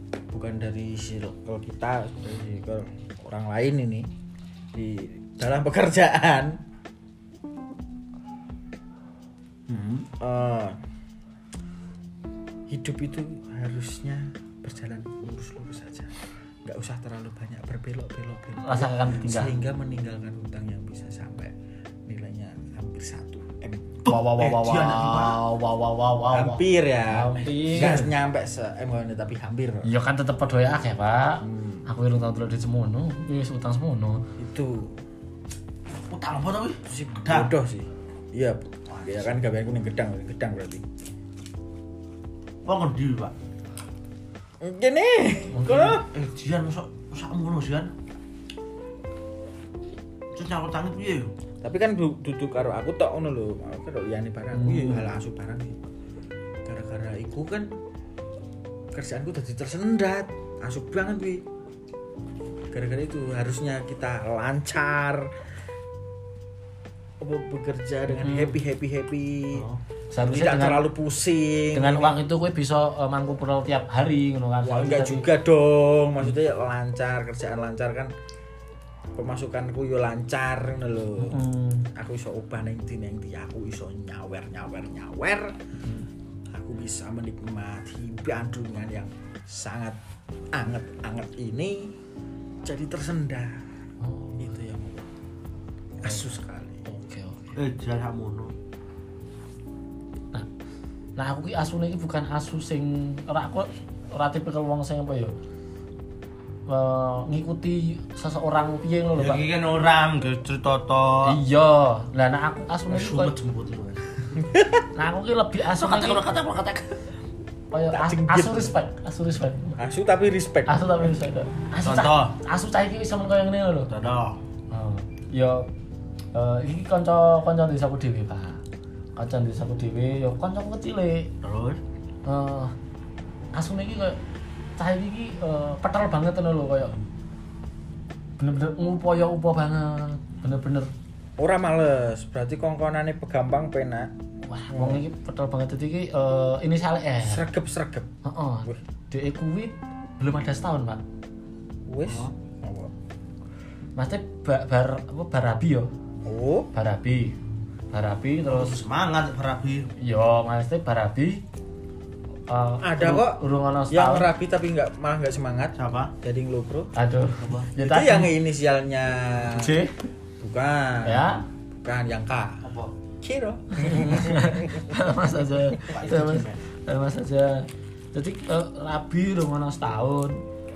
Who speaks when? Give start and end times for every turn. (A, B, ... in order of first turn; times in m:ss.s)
0:00.3-0:04.1 A
0:04.7-0:06.6 A
0:09.7-0:10.8 A
0:12.7-0:21.5 A
0:18.6-0:19.5 B
0:22.1-0:24.0 A
0:24.0-0:25.4 C
0:24.1-0:28.1 B
0:26.3-0:29.9 A
0:27.8-0:28.0 C
0:29.8-0:34.2 B
0:31.4-0:31.9 A
0:34.4-0:35.0 A
0:36.1-0:37.5 C
0:36.9-0:40.8 A
0:38.9-0:39.4 C
0:42.6-0:43.3 C
0:44.6-0:46.1 A
0:45.5-0:46.0 B
0:46.1-0:47.9 C
0:50.4-0:51.3 C
0:51.6-0:55.8 A
0:54.5-0:55.1 B
0:56.6-0:57.7 A
0:58.9-1:01.4 A
1:02.7-1:05.3 A
1:07.2-1:09.7 A
1:08.1-1:08.6 B
1:09.5-1:09.8 C
1:10.1-1:10.8 B
1:10.2-1:12.2 A
1:11.7-1:15.3 B
1:14.6-1:18.1 A
1:19.2-1:21.4 A
1:21.2-1:21.9 B
1:22.0-1:25.6 A
1:26.5-1:30.0 A
1:30.5-1:31.9 A
1:32.6-1:33.6 A
1:34.0-1:34.5 B
1:34.4-1:35.1 A
1:36.0-1:36.9 A
1:36.9-1:37.6 B
1:37.6-1:38.5 C
1:41.2-1:45.3 B
1:46.7-1:49.4 B
1:49.2-1:51.4 C
1:51.2-1:53.3 B
1:52.9-1:54.2 C
1:54.4-1:54.8 A
1:55.0-1:56.2 B
1:55.7-1:57.0 C
1:57.7-1:59.8 B
1:57.9-1:58.8 A
1:59.8-2:01.1 A
2:00.7-2:03.9 B
2:01.8-2:02.4 C
2:03.9-2:04.4 C
2:04.7-2:05.7 B
2:06.3-2:08.6 B
2:09.2-2:11.3 B
2:11.4-2:11.8 C
2:12.2-2:12.7 B
2:13.5-2:14.2 B
2:14.8-2:17.0 B
2:18.4-2:20.9 B
2:21.4-2:24.1 A
2:24.5-2:27.5 B
2:24.7-2:25.0 A
2:27.2-2:28.1 A
2:28.2-2:31.0 B
2:31.9-2:32.9 A
2:34.0-2:35.9 B
2:36.2-2:36.7 A
2:36.7-2:37.4 B
2:37.9-2:38.8 B
2:38.5-2:39.9 C
2:40.0-2:41.4 B
2:42.5-2:44.3 B
2:42.8-2:46.9 A
2:45.8-2:46.1 C
2:47.0-2:48.3 B
2:47.4-2:47.7 C
2:47.8-2:49.8 A
2:49.5-2:49.9 B
2:50.4-2:52.6 A
2:51.0-2:51.4 B
2:52.6-2:52.9 C
2:53.2-2:55.0 A
2:53.8-3:00.4 B
2:55.8-2:56.6 C